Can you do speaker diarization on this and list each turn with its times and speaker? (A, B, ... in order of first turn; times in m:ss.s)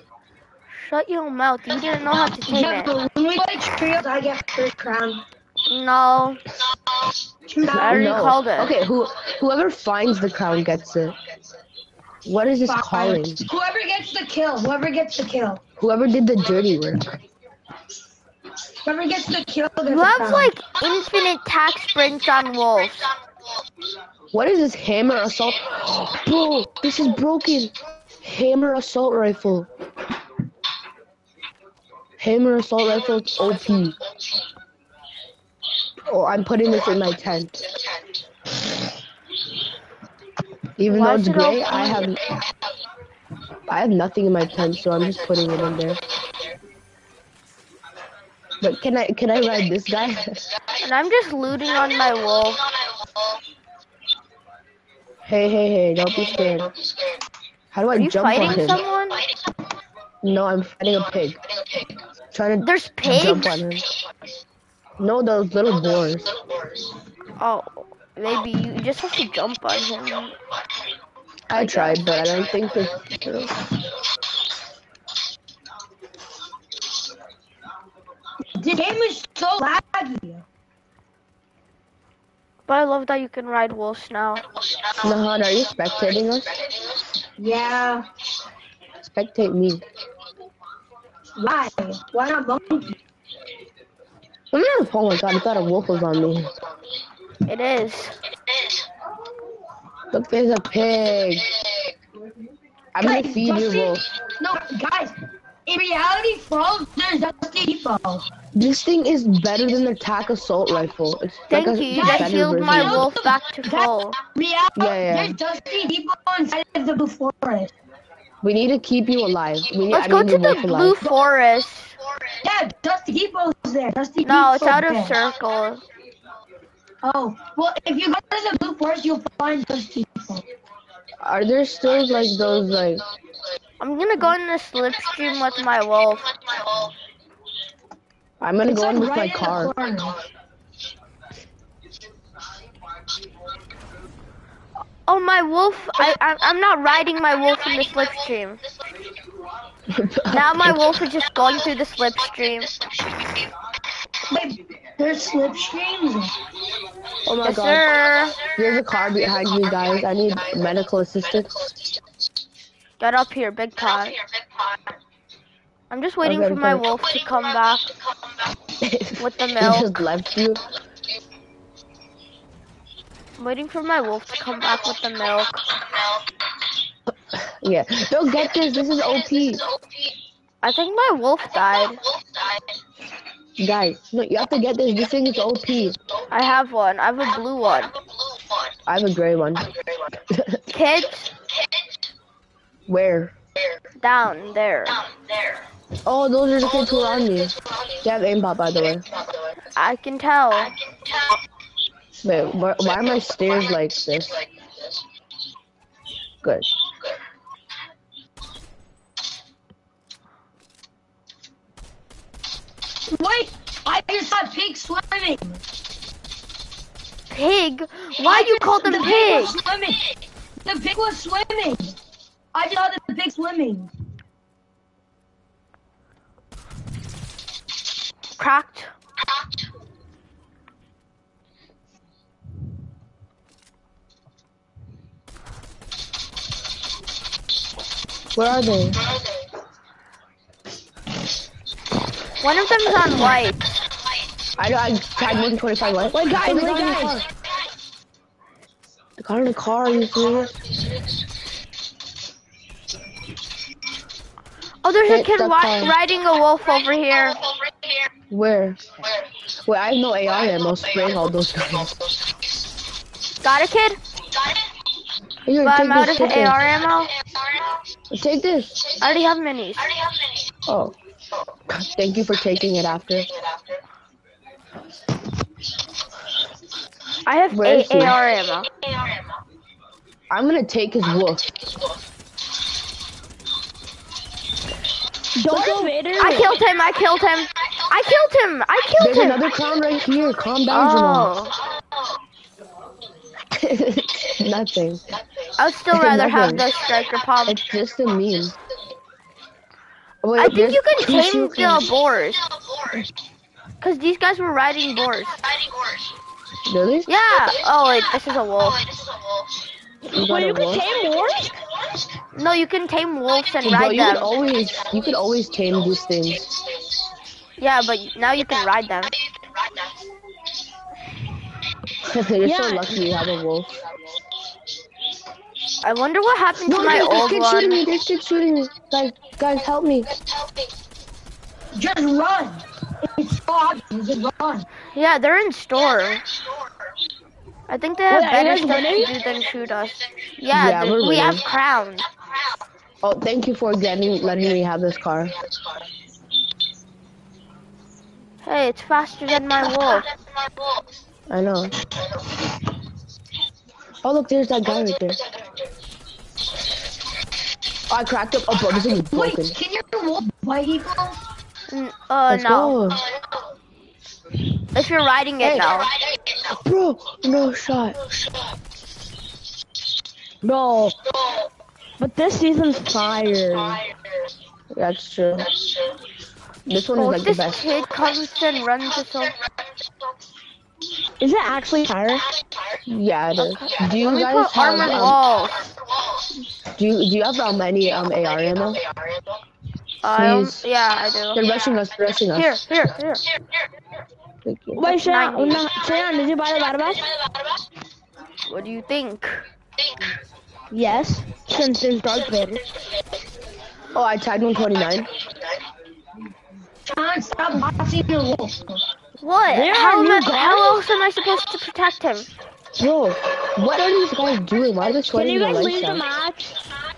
0:00.7-0:02.9 A
0:02.4-0:05.2 B
0:05.7-0:06.4 A
0:07.5-0:08.2 B
0:07.7-0:08.8 A
0:07.7-0:11.2 C
0:12.2-0:13.4 C
0:12.6-0:15.6 B
0:15.8-0:17.2 C
0:18.8-0:20.5 B
0:19.9-0:23.1 A
0:24.3-0:29.7 C
0:32.2-0:34.0 C
0:36.0-0:37.6 C
0:40.8-0:42.2 C
0:40.8-0:42.1 A
0:43.7-0:46.0 C
0:48.6-0:50.5 C
0:50.8-0:52.6 A
0:55.2-0:56.7 C
0:57.7-0:58.8 C
0:57.9-0:59.2 A
1:00.2-1:01.4 C
1:02.3-1:03.8 C
1:02.6-1:03.6 A
1:05.0-1:06.3 C
1:07.4-1:10.4 A
1:11.5-1:13.6 C
1:11.5-1:12.0 A
1:18.6-1:20.4 B
1:22.7-1:24.4 A
1:25.0-1:26.6 C
1:27.4-1:28.0 B
1:29.0-1:29.8 C
1:31.4-1:32.9 B
1:34.5-1:36.5 C
1:37.5-1:38.2 A
1:40.1-1:41.5 C
1:42.9-1:44.0 C
1:43.0-1:48.2 B
1:48.5-1:53.1 C
1:51.5-1:54.2 A
1:51.9-1:57.7 B
1:54.7-1:55.4 C
1:58.4-2:01.0 C
1:59.9-2:02.0 A
2:02.4-2:05.2 B
2:04.2-2:05.8 A
2:07.0-2:10.4 B
2:11.2-2:13.0 C
2:13.8-2:16.3 A
2:18.4-2:19.7 C
2:18.7-2:20.2 B
2:25.0-2:28.6 A
2:29.9-2:30.9 C
2:30.3-2:32.7 A
2:34.3-2:36.3 B
2:37.2-2:37.9 C
2:37.4-2:38.4 A
2:38.4-2:41.7 C
2:43.0-2:44.2 A
2:45.9-2:47.8 A
2:46.2-2:46.8 C
2:48.8-2:50.6 C
2:49.2-2:49.9 A
2:53.4-2:55.6 A
2:57.3-2:59.6 C
3:00.6-3:02.0 A
3:03.6-3:06.0 C
3:06.3-3:07.9 A
3:08.9-3:09.7 C
3:10.3-3:10.6 C
3:10.7-3:11.3 A
3:12.9-3:13.3 C
3:14.0-3:15.0 A
3:16.0-3:19.0 C
3:19.7-3:20.7 A
3:22.2-3:24.4 C
3:33.1-3:35.6 B
3:37.3-3:39.6 A
3:38.2-3:40.1 B
3:40.6-3:42.0 B
3:42.5-3:43.9 B
3:48.4-3:48.9 A
3:58.3-3:59.0 C
4:02.4-4:03.6 A
4:04.6-4:07.2 C
4:06.1-4:07.2 D
4:09.2-4:10.6 C
4:14.8-4:17.4 A
4:15.0-4:16.0 C
4:18.3-4:18.8 C
4:19.6-4:22.1 C
4:23.4-4:24.0 A
4:25.4-4:26.6 C
4:25.6-4:27.1 A
4:28.1-4:28.9 C
4:29.0-4:29.9 A
4:30.7-4:30.9 C
4:31.7-4:33.3 C
4:37.2-4:38.7 A
4:37.5-4:38.2 C
4:40.3-4:41.6 C
4:45.3-4:46.5 D
4:45.5-4:45.9 C
4:46.2-4:49.4 A
4:49.0-4:51.3 C
4:50.7-4:51.5 A
4:53.5-4:55.0 C
4:55.6-4:57.6 A
4:55.9-4:56.7 C
4:57.4-4:58.6 C
5:00.2-5:01.9 C
5:00.4-5:02.4 A
5:03.8-5:05.4 A
5:06.6-5:07.1 C
5:07.1-5:08.8 A
5:10.1-5:10.8 C
5:10.1-5:11.6 D
5:12.3-5:14.3 A
5:13.6-5:16.5 C
5:17.6-5:19.1 A
5:22.0-5:23.8 C
5:22.4-5:23.0 D
5:25.8-5:27.8 A
5:26.6-5:30.1 C
5:31.7-5:34.7 B
5:34.9-5:36.2 A
5:37.7-5:42.1 A
5:38.1-5:39.1 D
5:40.5-5:41.4 C
5:43.0-5:45.3 C
5:48.4-5:50.1 A
5:51.3-5:51.7 C
5:54.0-5:55.2 C
5:57.9-5:59.6 C
5:59.1-6:01.2 B
6:01.7-6:02.8 A
6:02.3-6:03.0 C
6:04.7-6:05.9 A
6:05.4-6:05.8 C
6:06.6-6:08.0 C
6:10.4-6:11.0 D
6:12.0-6:13.8 D
6:14.7-6:15.5 C
6:16.7-6:17.7 C
6:16.9-6:19.3 A
6:21.2-6:22.2 D
6:22.9-6:25.2 C
6:23.4-6:25.7 A
6:26.7-6:28.8 C
6:30.0-6:31.4 A
6:30.1-6:30.6 C
6:31.3-6:32.6 C
6:32.3-6:33.2 A
6:34.4-6:34.9 C
6:34.8-6:37.1 D
6:34.8-6:35.6 A
6:38.4-6:39.4 A
6:40.7-6:42.6 D
6:43.9-6:45.1 C
6:46.8-6:48.8 B
6:49.2-6:52.3 A
6:49.5-6:50.8 D
6:52.8-6:56.0 C
6:55.1-6:56.5 D